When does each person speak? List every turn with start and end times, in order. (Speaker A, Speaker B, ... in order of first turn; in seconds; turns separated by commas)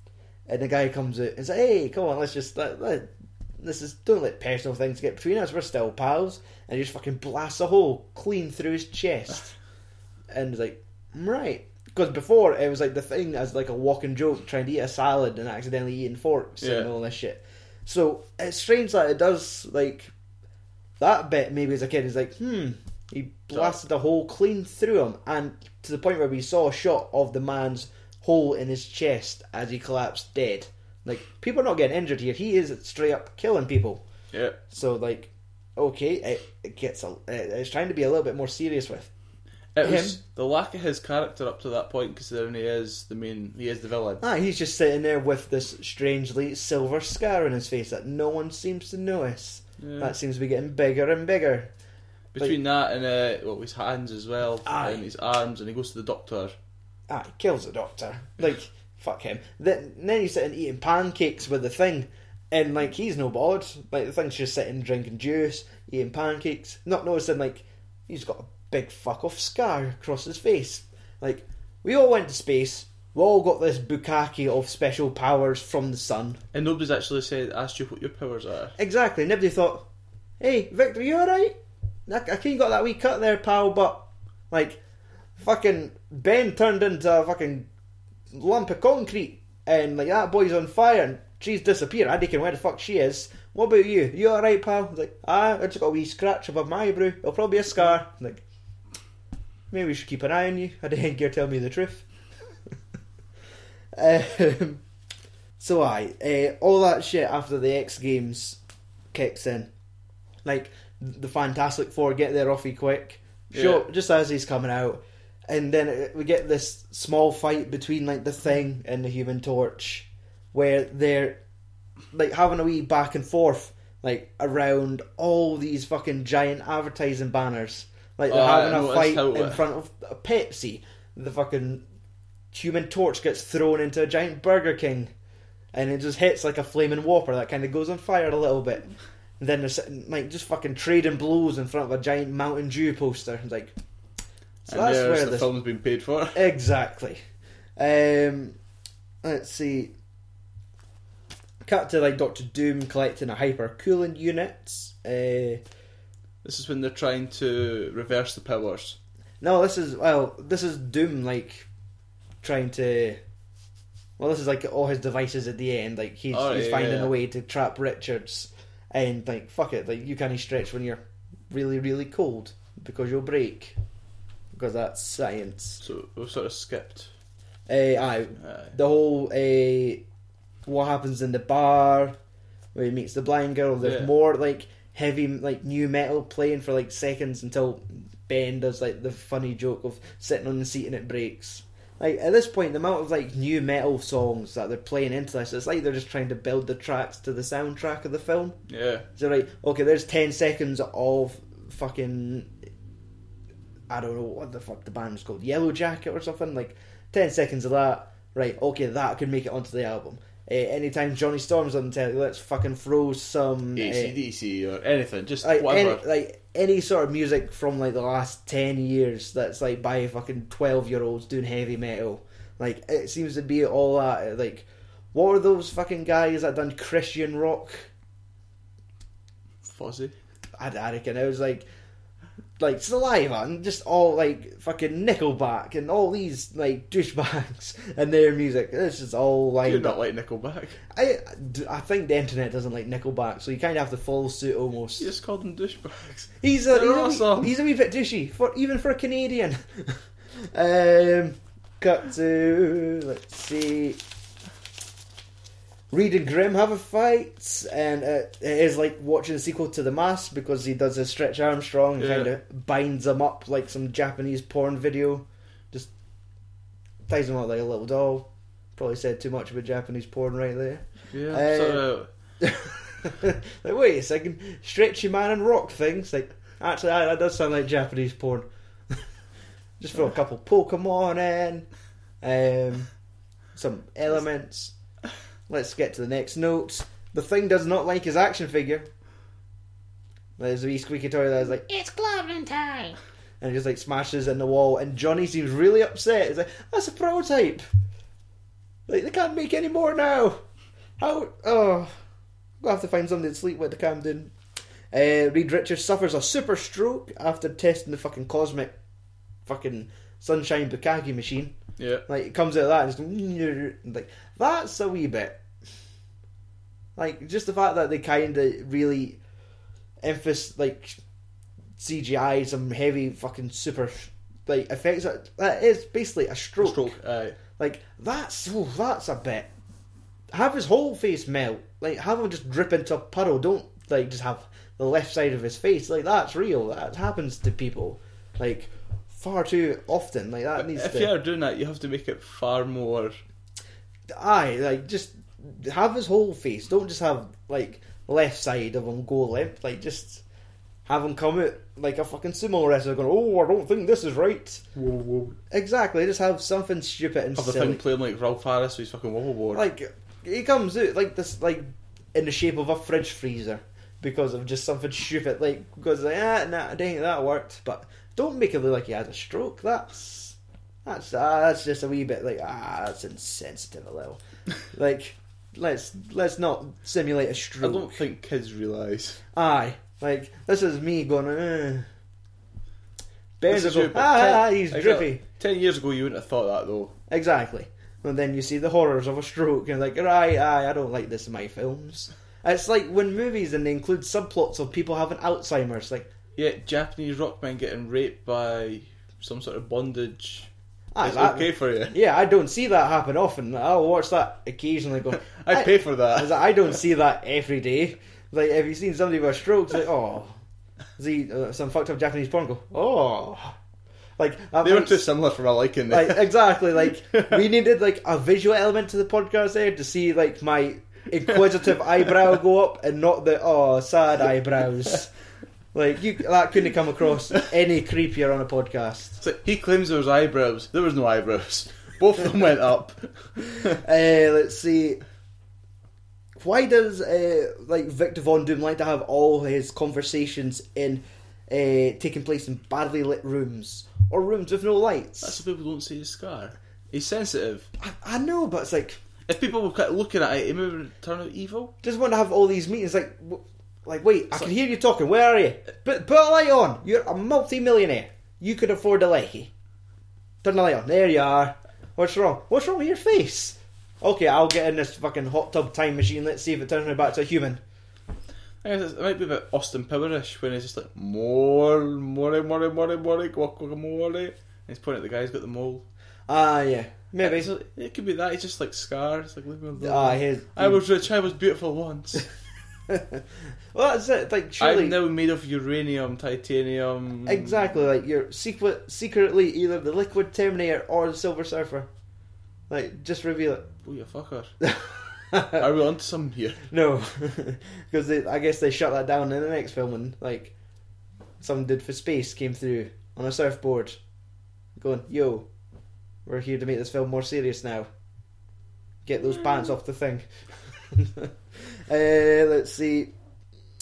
Speaker A: 0.5-9.5, Speaker A: 10.3-20.1, Speaker B: 16.6-16.9, Speaker A: 21.0-34.0, Speaker B: 34.3-34.6, Speaker A: 34.7-39.1, Speaker B: 39.8-44.2, Speaker A: 39.8-40.2, Speaker A: 44.2-51.7, Speaker B: 49.8-50.1, Speaker B: 52.3-56.5, Speaker A: 54.6-55.0, Speaker A: 57.1-76.4, Speaker B: 76.5-78.8, Speaker A: 78.8-79.9, Speaker A: 80.4-84.8, Speaker A: 85.4-87.7, Speaker A: 88.3-98.4, Speaker A: 99.7-102.0, Speaker A: 104.0-104.8, Speaker A: 105.6-108.6, Speaker A: 109.1-109.7, Speaker A: 110.5-121.4, Speaker B: 113.5-113.8, Speaker A: 122.1-131.8, Speaker B: 128.3-129.6, Speaker A: 132.5-135.1, Speaker A: 135.7-143.8, Speaker A: 144.7-145.5, Speaker B: 144.7-146.4, Speaker A: 146.3-147.2, Speaker A: 147.8-148.6, Speaker A: 149.2-149.9, Speaker A: 151.6-155.6, Speaker B: 156.4-159.0, Speaker A: 159.4-161.7, Speaker A: 162.4-163.2, Speaker A: 164.2-173.8, Speaker B: 166.3-167.1, Speaker A: 174.5-175.8, Speaker B: 175.8-177.1, Speaker A: 177.7-180.0, Speaker B: 178.4-178.7, Speaker A: 180.7-182.2, Speaker A: 182.7-198.6, Speaker B: 183.8-184.1, Speaker B: 198.7-199.1, Speaker A: 199.2-202.5, Speaker A: 203.9-214.2, Speaker B: 213.8-216.0, Speaker A: 215.4-227.9, Speaker B: 229.7-230.1, Speaker A: 230.6-231.7, Speaker A: 232.6-240.0, Speaker B: 239.6-240.8, Speaker A: 240.9-245.1, Speaker B: 245.0-247.5, Speaker A: 246.4-254.0, Speaker A: 255.9-265.9, Speaker B: 262.0-262.3, Speaker A: 267.1-271.8, Speaker B: 271.1-272.1, Speaker A: 272.4-279.1, Speaker A: 279.8-281.7, Speaker A: 282.2-282.9, Speaker A: 283.6-284.8, Speaker A: 285.5-288.9, Speaker A: 290.4-297.6, Speaker A: 298.9-300.4, Speaker A: 301.0-301.9, Speaker A: 302.6-304.3, Speaker A: 304.9-308.7, Speaker A: 309.4-311.6, Speaker B: 311.8-312.1, Speaker A: 312.1-315.4, Speaker A: 317.0-319.2, Speaker A: 320.0-321.0, Speaker A: 321.8-326.9, Speaker B: 326.6-327.4, Speaker A: 327.6-329.5, Speaker A: 330.3-341.1, Speaker B: 340.6-343.2, Speaker A: 344.1-350.2, Speaker A: 350.9-354.7, Speaker B: 354.8-355.4, Speaker A: 355.5-357.8, Speaker B: 357.4-359.6, Speaker A: 359.6-374.2, Speaker A: 374.7-378.0, Speaker B: 377.6-379.2, Speaker A: 379.3-381.9, Speaker A: 383.4-385.2, Speaker B: 383.5-386.9, Speaker A: 387.1-396.1, Speaker B: 396.4-400.5, Speaker A: 400.9-410.4, Speaker B: 401.0-401.9, Speaker B: 405.2-406.4, Speaker A: 411.0-413.6, Speaker A: 414.2-415.1, Speaker B: 414.6-416.2, Speaker A: 415.9-425.1, Speaker A: 425.7-429.2, Speaker B: 429.2-433.1, Speaker A: 433.6-435.0, Speaker A: 436.4-445.4, Speaker B: 445.2-447.7, Speaker A: 447.8-449.0, Speaker B: 449.3-451.8, Speaker A: 451.8-459.5, Speaker A: 460.4-467.6, Speaker B: 468.6-475.9, Speaker A: 476.3-477.5, Speaker B: 477.2-482.3, Speaker A: 479.8-480.8, Speaker A: 482.9-485.0, Speaker B: 484.6-487.7, Speaker A: 487.3-491.9, Speaker A: 492.7-493.7, Speaker B: 493.8-494.5, Speaker A: 494.6-495.6, Speaker B: 495.4-496.6, Speaker A: 496.7-500.5, Speaker A: 501.4-504.0, Speaker A: 504.8-505.5, Speaker A: 506.2-507.9, Speaker A: 509.1-510.3, Speaker A: 510.9-513.1